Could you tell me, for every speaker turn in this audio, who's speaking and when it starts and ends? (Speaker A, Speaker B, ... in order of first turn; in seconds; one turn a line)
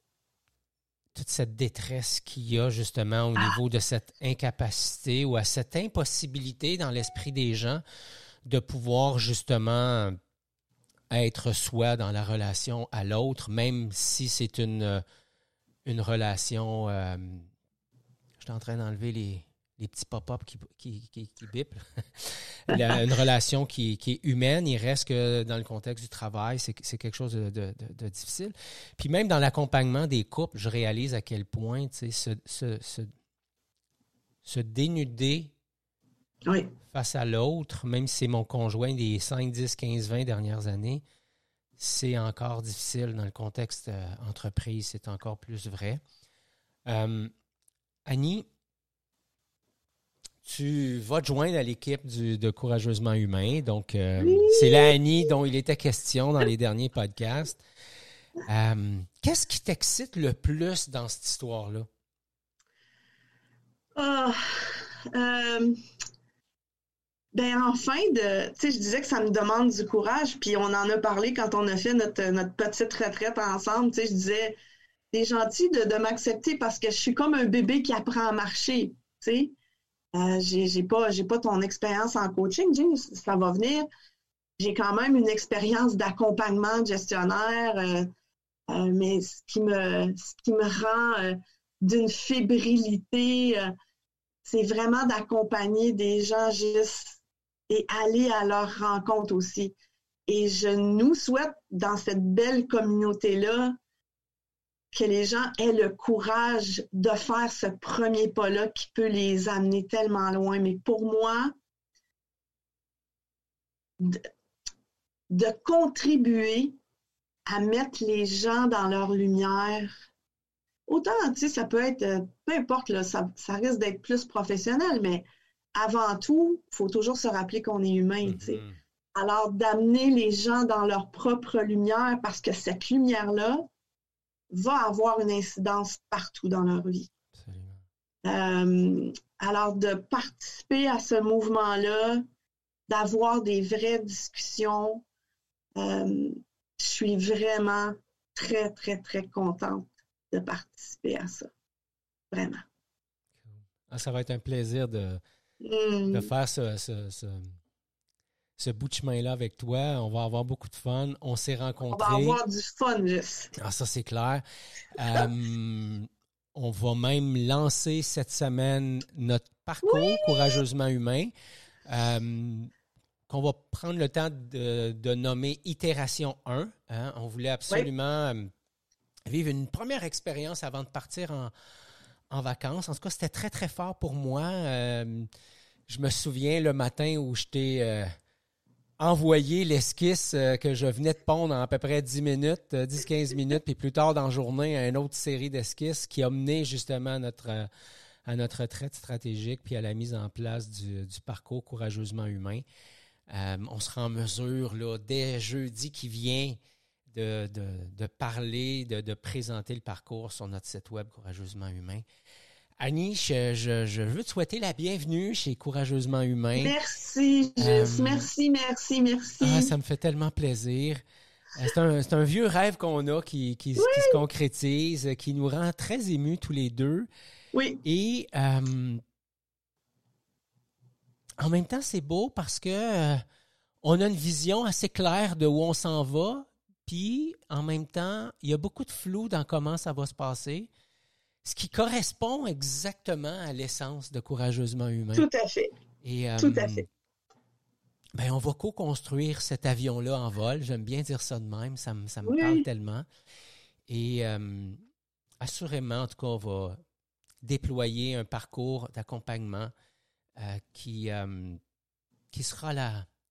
Speaker A: 1.1-7.8
Speaker A: 8.4-10.2
Speaker A: 11.1-15.0
Speaker A: 15.8-17.4
Speaker A: 18.4-33.1
Speaker A: 34.4-35.5
Speaker B: 36.5-36.7
Speaker A: 36.9-41.0
Speaker A: 41.8-46.0
Speaker A: 46.9-47.3
Speaker A: 48.0-48.5
Speaker A: 50.4-57.6
Speaker B: 54.2-55.0
Speaker A: 58.5-61.9
Speaker B: 64.0-65.8
Speaker B: 67.3-74.5
Speaker B: 75.1-79.5
Speaker B: 80.1-83.9
Speaker B: 84.6-88.1
Speaker B: 88.7-93.7
Speaker B: 94.4-99.8
Speaker B: 100.3-103.7
Speaker B: 104.9-111.5
Speaker B: 114.0-114.3
Speaker B: 115.3-116.7
Speaker B: 117.5-119.9
Speaker B: 120.9-128.6
Speaker A: 128.2-128.8
Speaker B: 129.1-133.7
Speaker B: 134.5-137.1
Speaker A: 137.3-137.8
Speaker B: 138.2-142.2
Speaker B: 142.9-145.0
Speaker B: 145.8-151.5
Speaker B: 152.3-152.7
Speaker A: 153.5-155.2
Speaker B: 155.6-156.3
Speaker A: 156.1-157.6
Speaker A: 158.6-162.4
Speaker B: 161.9-163.5
Speaker A: 163.6-171.3
Speaker B: 169.8-170.6
Speaker A: 171.9-172.7
Speaker A: 173.3-178.5
Speaker A: 179.3-181.5
Speaker A: 182.3-185.3
Speaker A: 185.9-188.1
Speaker A: 189.0-197.7
Speaker A: 198.2-202.6
Speaker A: 203.3-206.6
Speaker A: 207.1-212.0
Speaker A: 212.8-216.7
Speaker B: 216.6-219.7
Speaker A: 217.6-218.3
Speaker A: 219.4-221.0
Speaker A: 221.6-227.1
Speaker B: 223.8-224.2
Speaker B: 227.5-227.8
Speaker A: 227.8-229.0
Speaker A: 231.4-233.2
Speaker A: 233.8-240.7
Speaker A: 241.4-245.3
Speaker B: 245.1-245.7
Speaker A: 246.0-246.8
Speaker B: 246.4-246.8
Speaker A: 248.2-253.1
Speaker B: 252.2-252.6
Speaker A: 253.9-254.8
Speaker A: 255.4-256.8
Speaker A: 257.4-259.7
Speaker A: 260.4-261.6
Speaker A: 262.3-263.1